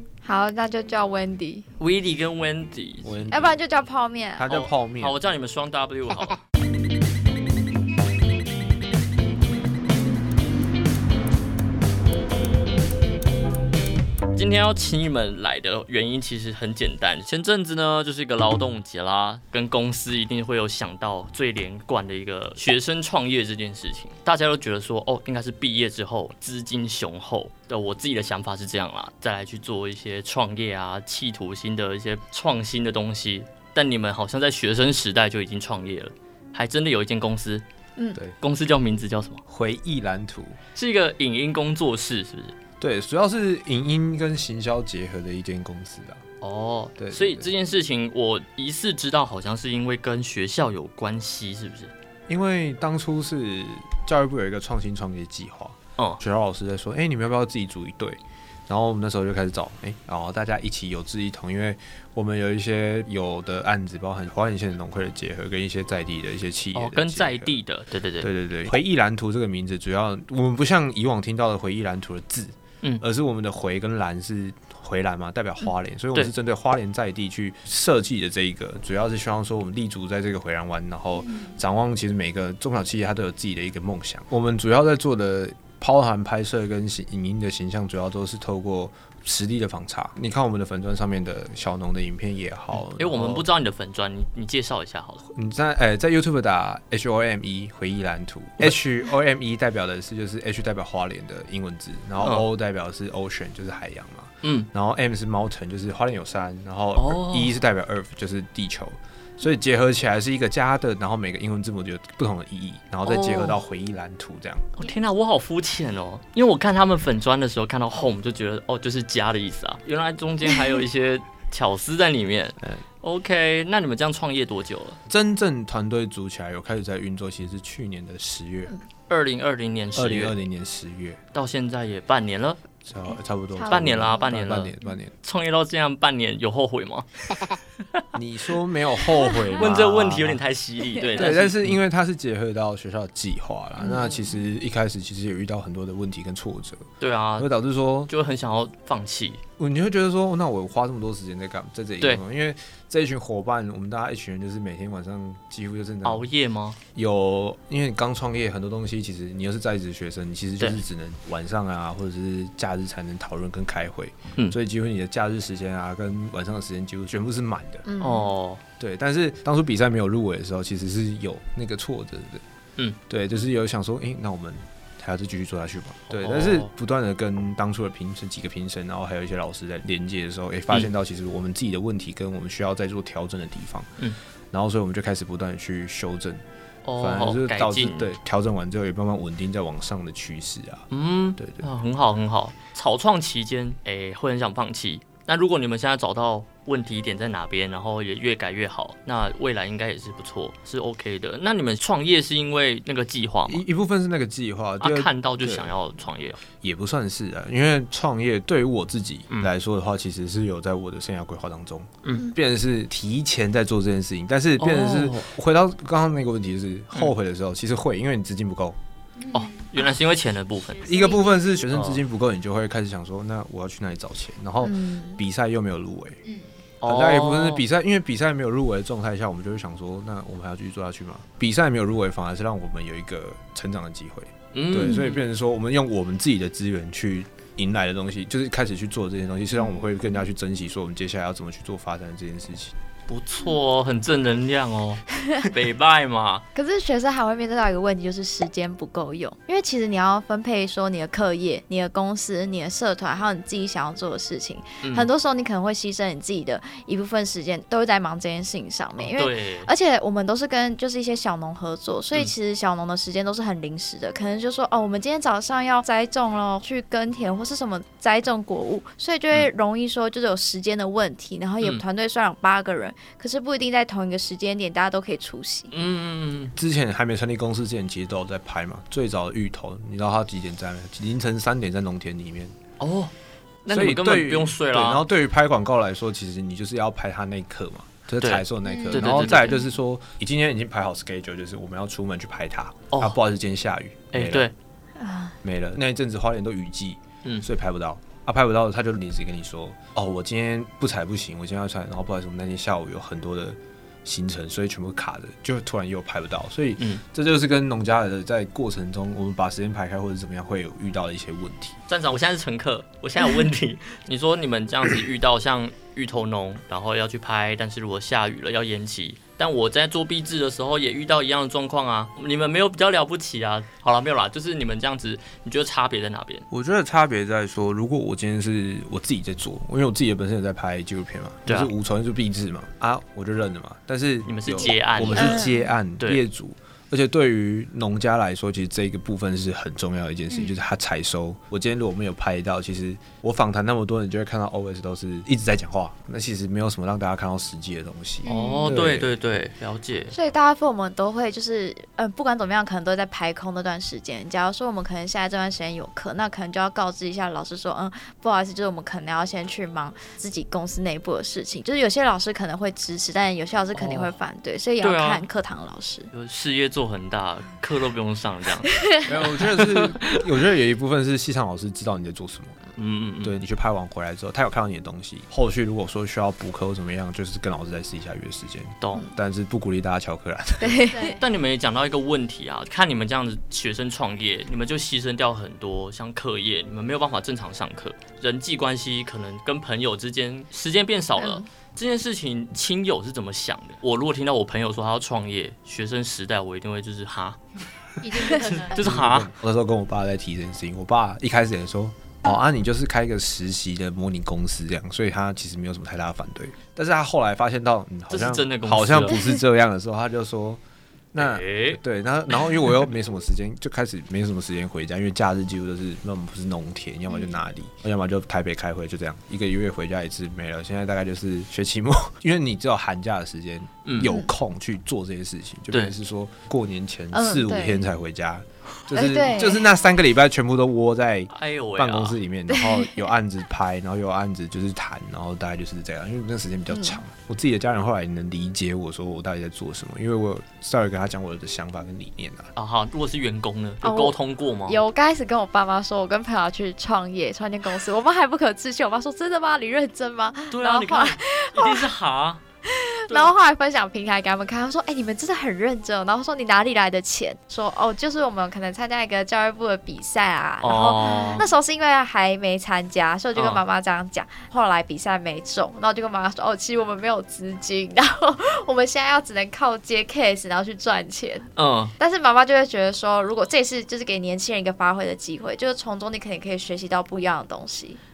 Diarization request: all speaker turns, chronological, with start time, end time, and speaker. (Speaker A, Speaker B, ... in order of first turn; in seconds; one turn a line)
Speaker A: 0.2-1.7
Speaker B: 1.8-3.5
Speaker C: 3.0-3.5
Speaker A: 3.3-4.5
Speaker C: 4.4-5.2
Speaker B: 4.5-6.4
Speaker B: 14.3-37.6
Speaker B: 38.4-39.4
Speaker C: 39.5-40.6
Speaker B: 40.8-42.5
Speaker C: 42.8-46.2
Speaker B: 46.4-51.9
Speaker C: 47.0-47.5
Speaker C: 52.3-67.6
Speaker B: 66.8-68.3
Speaker C: 68.2-93.5
Speaker B: 92.9-95.2
Speaker C: 95.3-114.7
Speaker B: 102.2-102.5
Speaker B: 104.4-104.7
Speaker B: 107.0-107.6
Speaker B: 113.0-113.6
Speaker B: 114.8-125.0
Speaker C: 125.1-128.7
Speaker B: 129.1-130.4
Speaker C: 129.9-131.2
Speaker B: 131.3-132.6
Speaker C: 132.9-135.1
Speaker A: 133.6-133.8
Speaker B: 133.7-134.7
Speaker B: 135.2-137.1
Speaker C: 138.2-140.4
Speaker B: 139.6-141.8
Speaker C: 141.2-146.9
Speaker A: 143.8-144.3
Speaker B: 147.0-147.5
Speaker C: 147.4-148.1
Speaker B: 148.1-149.4
Speaker C: 149.6-156.2
Speaker B: 156.0-156.8
Speaker C: 156.9-167.8
Speaker A: 167.9-168.3
Speaker B: 168.0-168.6
Speaker C: 168.8-172.4
Speaker C: 173.1-183.9
Speaker B: 176.2-176.7
Speaker C: 184.5-186.4
Speaker B: 186.8-188.1
Speaker C: 187.0-190.9
Speaker B: 190.9-203.7
Speaker C: 191.4-191.7
Speaker C: 203.5-205.7
Speaker B: 204.8-206.4
Speaker C: 206.6-218.8
Speaker B: 214.6-215.3
Speaker D: 219.2-219.7
Speaker B: 219.3-221.0
Speaker C: 220.8-226.2
Speaker D: 220.9-221.2
Speaker B: 221.7-222.0
Speaker A: 224.6-225.2
Speaker B: 226.8-227.6
Speaker C: 226.8-242.8
Speaker B: 234.5-235.2
Speaker B: 243.1-246.4
Speaker A: 246.6-275.7
Speaker B: 254.8-255.1
Speaker B: 259.0-259.7
Speaker B: 275.7-276.6
Speaker C: 276.6-282.6
Speaker B: 282.8-283.1
Speaker B: 283.6-285.1
Speaker C: 283.7-294.5
Speaker B: 288.2-289.6
Speaker D: 288.6-289.5
Speaker B: 292.9-293.2
Speaker B: 294.1-294.5
Speaker A: 295.0-295.3
Speaker C: 295.4-311.8
Speaker B: 311.9-326.4
Speaker C: 326.5-349.1
Speaker B: 331.5-331.7
Speaker B: 334.3-335.5
Speaker A: 335.1-335.6
Speaker D: 340.3-340.6
Speaker D: 348.2-348.7
Speaker B: 348.2-350.1
Speaker A: 350.1-366.1
Speaker B: 363.8-364.1
Speaker B: 364.8-365.3
Speaker B: 366.1-368.7
Speaker C: 369.0-372.6
Speaker B: 369.4-370.2
Speaker B: 372.8-373.3
Speaker C: 373.2-380.8
Speaker B: 378.8-379.1
Speaker A: 380.6-381.2
Speaker D: 380.9-381.2
Speaker B: 381.2-397.4
Speaker A: 391.2-391.4
Speaker D: 398.0-398.8
Speaker B: 398.2-399.3
Speaker C: 398.8-410.6
Speaker B: 408.1-409.2
Speaker C: 411.1-442.5
Speaker B: 411.2-411.8
Speaker B: 423.9-424.1
Speaker A: 427.1-427.9
Speaker A: 428.9-429.7
Speaker B: 431.3-432.2
Speaker A: 432.5-432.9
Speaker A: 436.7-437.0
Speaker B: 442.6-444.8
Speaker A: 443.8-451.9
Speaker B: 450.5-452.4
Speaker A: 452.7-471.5
Speaker B: 460.6-461.5
Speaker B: 463.4-463.6
Speaker B: 471.6-471.9
Speaker A: 472.0-478.0